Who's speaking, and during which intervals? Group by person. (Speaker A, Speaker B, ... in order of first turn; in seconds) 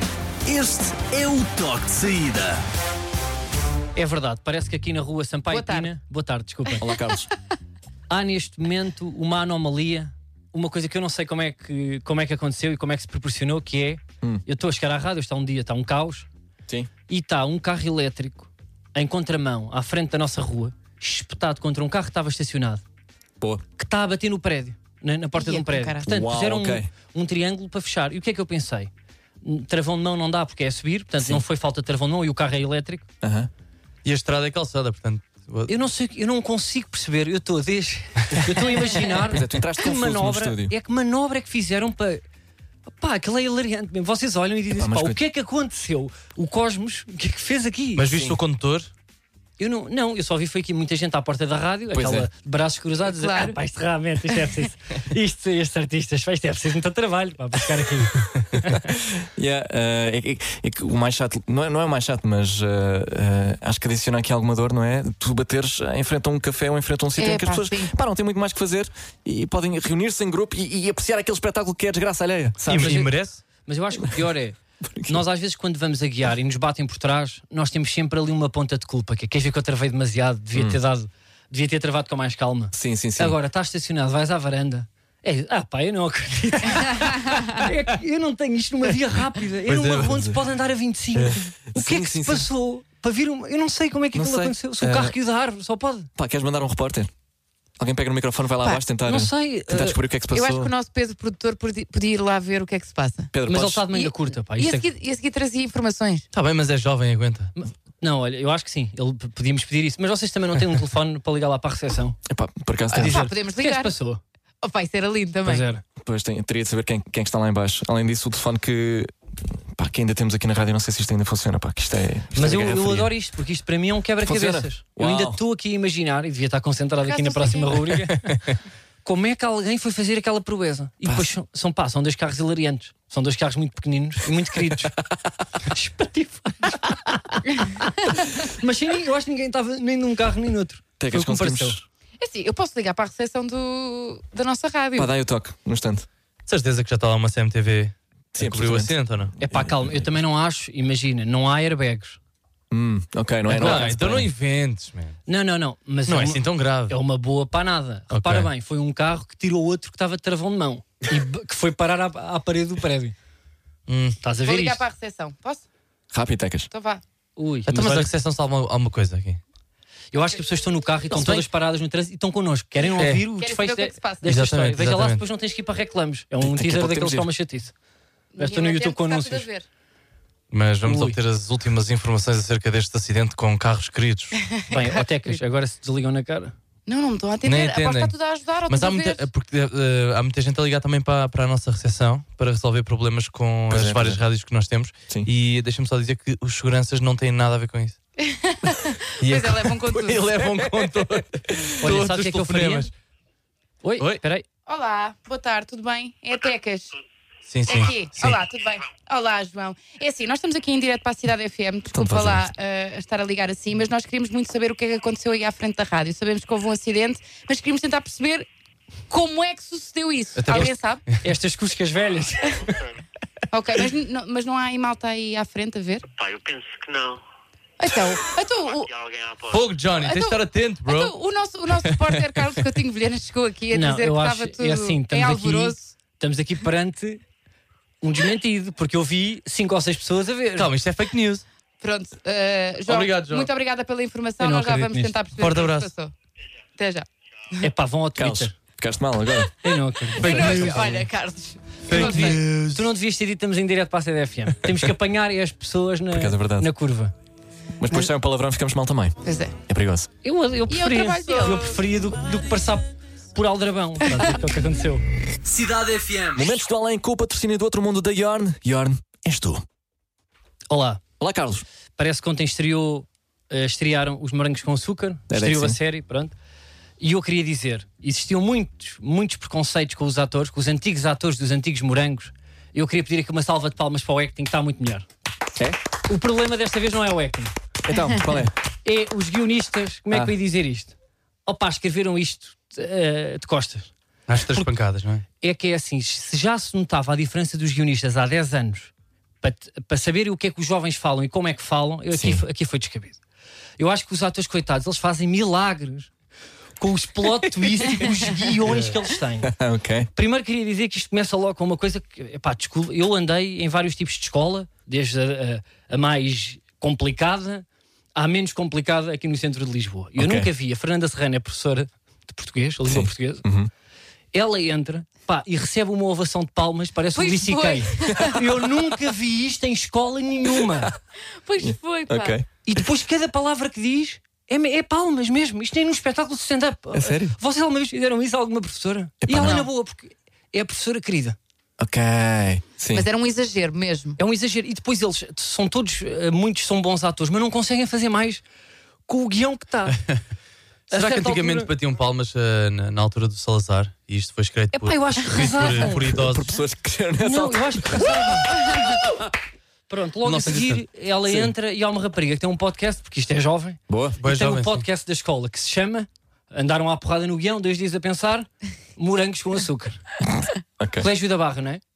Speaker A: 0.4-2.6, 265.4-266.5
Speaker B: 4.0-6.8, 8.1-16.3, 17.1-22.8, 23.8-33.0, 35.7-42.2, 43.0-48.3, 49.6-58.8, 72.7-96.1, 99.0-100.0, 103.4-104.9, 107.5-112.2, 112.9-114.2, 115.5-115.8, 122.3-128.4, 129.0-134.9, 135.7-141.8, 149.4-152.2, 153.5-154.0, 155.3-163.2, 164.2-164.8, 167.4-168.1, 170.1-177.7, 178.4-179.5, 180.8-181.2, 184.7-186.5, 201.8-202.9, 203.8-204.4, 220.5-222.8, 233.7-237.2, 238.0-240.7, 244.4-245.2, 247.6-248.5, 249.6-251.0, 251.9-257.1, 260.2-265.0, 270.7-271.0, 272.0-276.3, 277.0-285.1, 286.1-287.5, 288.8-290.9, 291.4-293.9, 295.4-298.9, 299.4-303.2, 303.8-306.1, 306.8-309.5, 310.1-317.6, 318.1-323.4, 324.3-330.9, 332.6-341.4, 344.2-348.4, 349.1-350.0, 350.9-351.7, 354.7-356.1, 357.2-358.7, 359.9-370.0, 371.0-371.8
Speaker C: 5.5-5.9, 25.4-26.0, 53.0-53.6, 67.2-67.9, 100.3-103.3, 103.9-106.2, 113.0-113.9, 114.6-115.7, 127.0-127.7, 142.2-145.1, 164.4-165.6, 166.7-167.0, 173.3-174.3, 178.3-179.6, 184.5-185.4, 186.8-189.2, 198.2-200.4, 204.7-207.0, 207.7-218.5, 219.1-221.0, 223.5-226.1, 227.8-228.9, 230.0-235.9, 241.8-246.1, 246.8-247.7, 250.1-252.4, 259.2-259.5, 260.7-261.8, 327.1-328.4, 331.4-332.4, 342.9-344.2
Speaker D: 6.8-7.3, 26.0-26.9, 33.2-33.5, 39.2-40.7, 44.7-45.2, 51.9-52.3, 58.8-73.1, 74.8-75.2, 82.7-83.4, 89.8-90.4, 91.7-92.5, 94.1-95.1, 96.2-97.1, 97.8-100.7, 103.3-103.8, 112.3-113.2, 116.0-119.1, 119.7-123.1, 124.2-125.4, 131.0-131.3, 141.0-141.8, 144.9-146.1, 148.3-150.0, 152.7-154.3, 166.1-166.7, 176.4-177.3, 193.7-194.2, 211.9-212.5, 248.2-249.5, 256.1-256.7, 257.8-260.1, 266.3-269.6, 271.2-271.6, 275.3-275.8, 287.8-288.5, 302.1-302.4, 309.4-310.1, 320.2-320.5, 322.8-323.7, 331.6-332.5, 336.9-337.4, 339.2-339.7, 341.8-343.1, 355.6-359.0, 363.9-364.2, 370.8-371.1
Speaker E: 34.0-35.7, 47.9-48.9, 72.7-73.4, 89.7-90.1, 106.3-107.5, 146.5-149.3, 153.5-155.2, 156.1-156.9, 158.1-158.5, 163.9-164.2, 167.7-169.4, 171.1-171.5, 173.0-173.2, 174.2-175.2, 180.5-184.4, 187.4-188.1, 188.7-198.0, 199.2-202.9, 207.5-208.4, 220.3-221.2, 229.5-231.2, 231.7-232.2, 240.6-241.4, 242.8-243.5, 245.4-245.9, 250.2-251.1, 251.9-252.9, 294.3-295.2, 350.9-356.5, 360.2-360.8, 364.2-364.8
Speaker F: 226.2-227.2, 228.7-229.7